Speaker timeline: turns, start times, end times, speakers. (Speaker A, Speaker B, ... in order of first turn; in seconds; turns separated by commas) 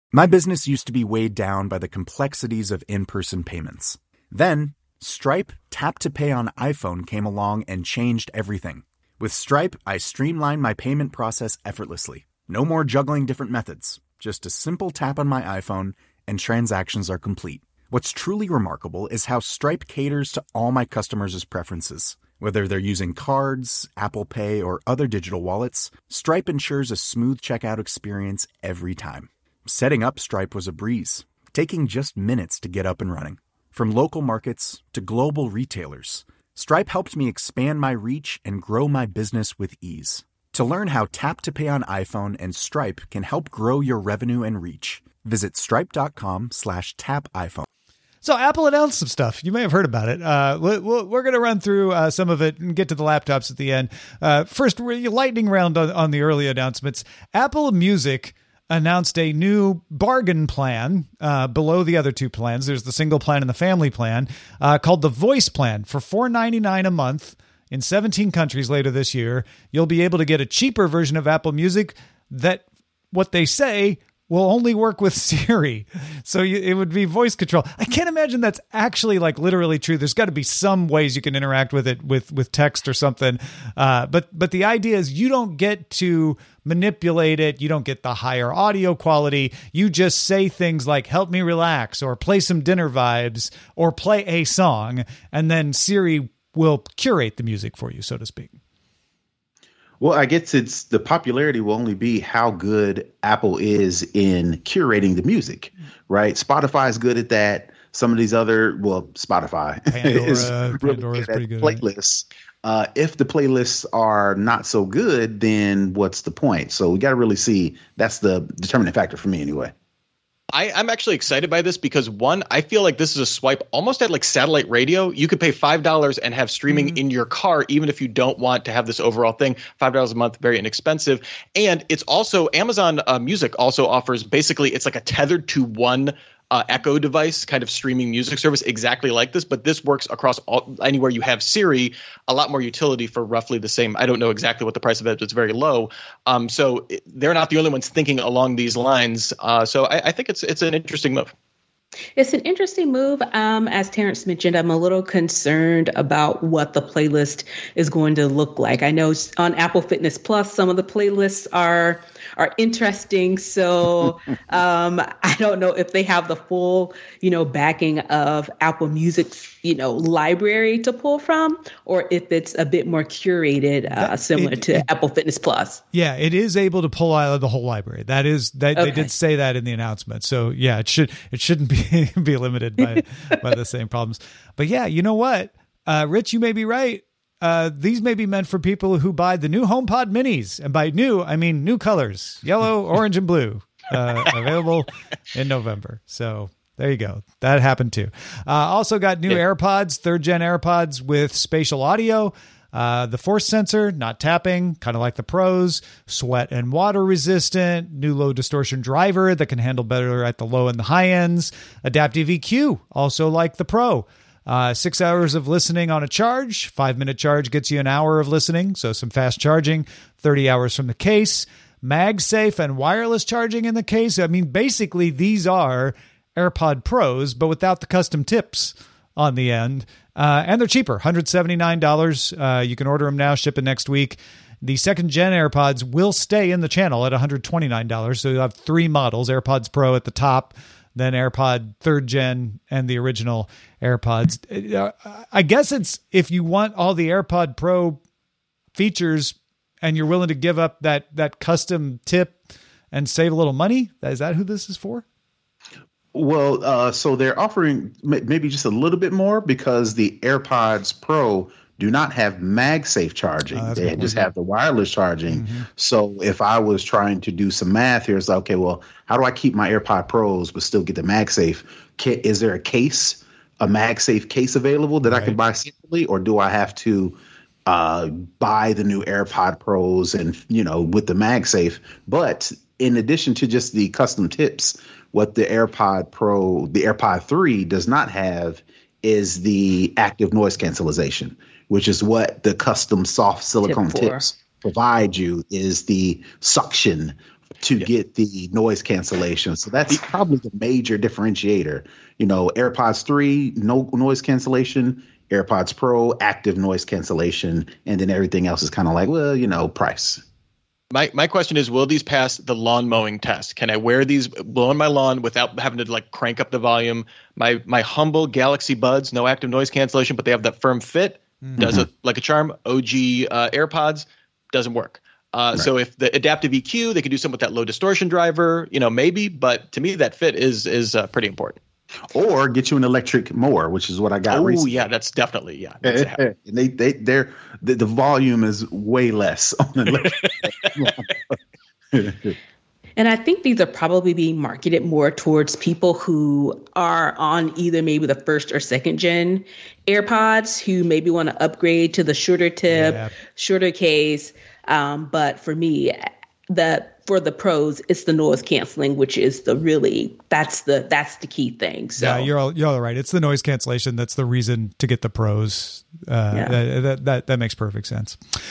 Speaker A: 0.1-47.7, Speaker B: 48.2-98.5, Speaker C: 100.0-119.7, Speaker B: 109.9-111.8, Speaker D: 120.5-151.3, Speaker E: 152.2-175.8, Speaker B: 173.9-174.9, Speaker B: 175.9-248.0, Speaker E: 178.8-179.1, Speaker B: 248.8-252.4, Speaker B: 252.9-255.0, Speaker C: 256.1-310.2, Speaker B: 263.5-264.3, Speaker B: 265.3-265.7, Speaker B: 275.1-275.4, Speaker E: 293.6-294.3, Speaker D: 310.9-331.6, Speaker B: 321.4-321.7, Speaker C: 321.6-321.9, Speaker C: 332.1-334.7, Speaker D: 334.3-336.2, Speaker C: 335.9-341.4, Speaker D: 340.0-340.6, Speaker C: 341.9-342.4, Speaker E: 343.0-362.3, Speaker B: 352.7-353.1, Speaker B: 362.0-368.2, Speaker E: 366.3-366.6